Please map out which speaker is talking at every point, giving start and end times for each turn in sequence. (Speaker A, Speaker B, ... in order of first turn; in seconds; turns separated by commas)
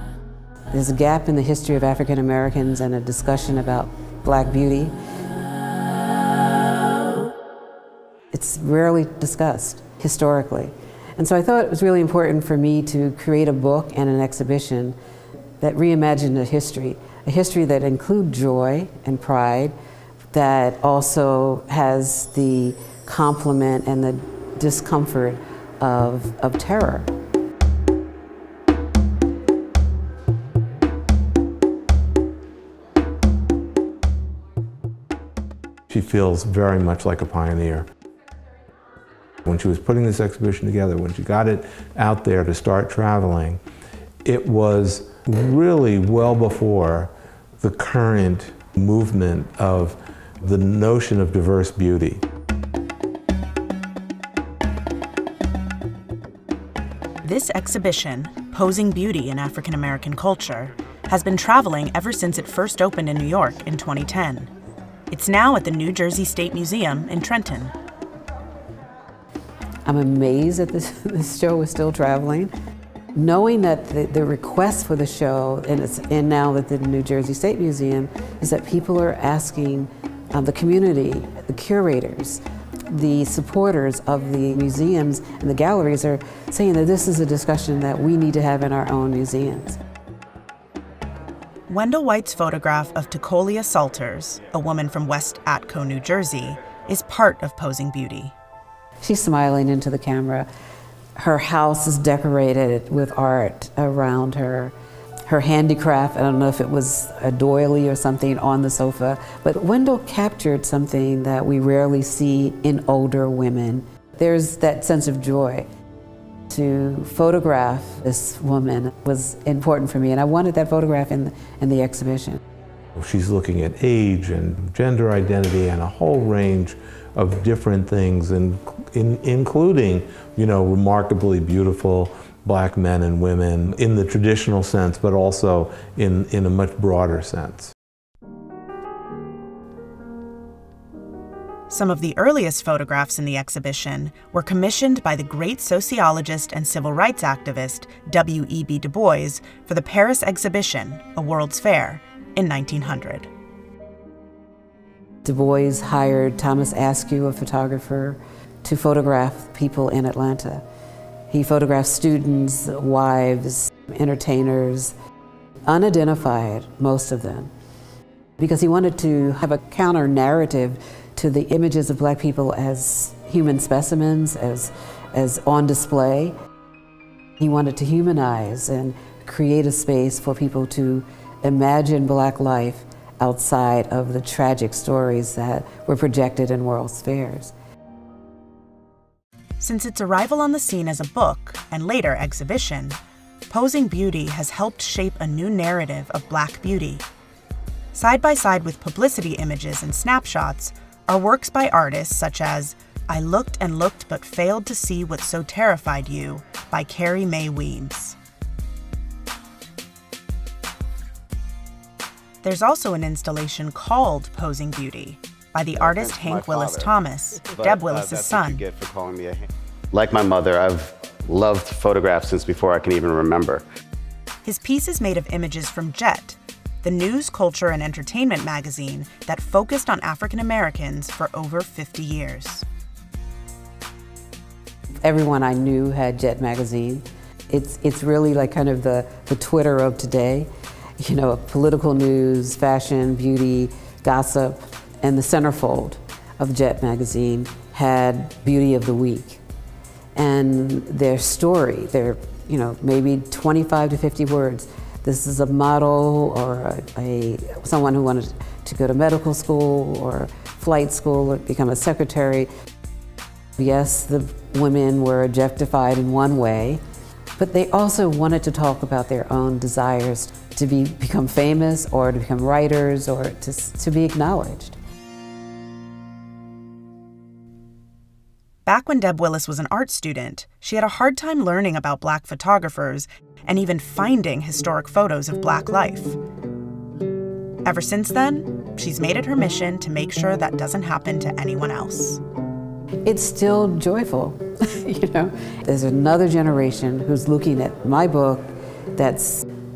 Speaker A: 0.7-4.9, Speaker A: 8.3-15.0, Speaker A: 15.6-19.8, Speaker A: 20.3-27.1, Speaker B: 35.9-37.9, Speaker B: 39.5-43.6, Speaker B: 44.2-52.2, Speaker C: 57.2-64.5, Speaker C: 65.1-67.7, Speaker A: 69.9-72.5, Speaker A: 73.2-89.8, Speaker C: 91.7-98.3, Speaker A: 99.0-100.5, Speaker A: 101.2-104.7, Speaker A: 105.3-115.7, Speaker A: 116.5-122.4, Speaker B: 123.0-137.7, Speaker C: 141.7-153.3, Speaker A: 155.2-160.6, Speaker A: 161.3-164.9, Speaker A: 165.7-167.5, Speaker A: 168.4-176.3, Speaker A: 177.4-187.5, Speaker C: 189.6-193.0, Speaker C: 193.5-197.1, Speaker C: 197.9-208.2, Speaker C: 212.4-218.6, Speaker D: 215.8-216.9, Speaker D: 217.4-223.6, Speaker C: 224.4-232.7, Speaker A: 235.0-249.4, Speaker A: 250.2-262.5, Speaker A: 263.6-266.8, Speaker A: 267.4-274.8, Speaker C: 278.7-286.2, Speaker C: 287.6-292.2, Speaker A: 293.0-299.4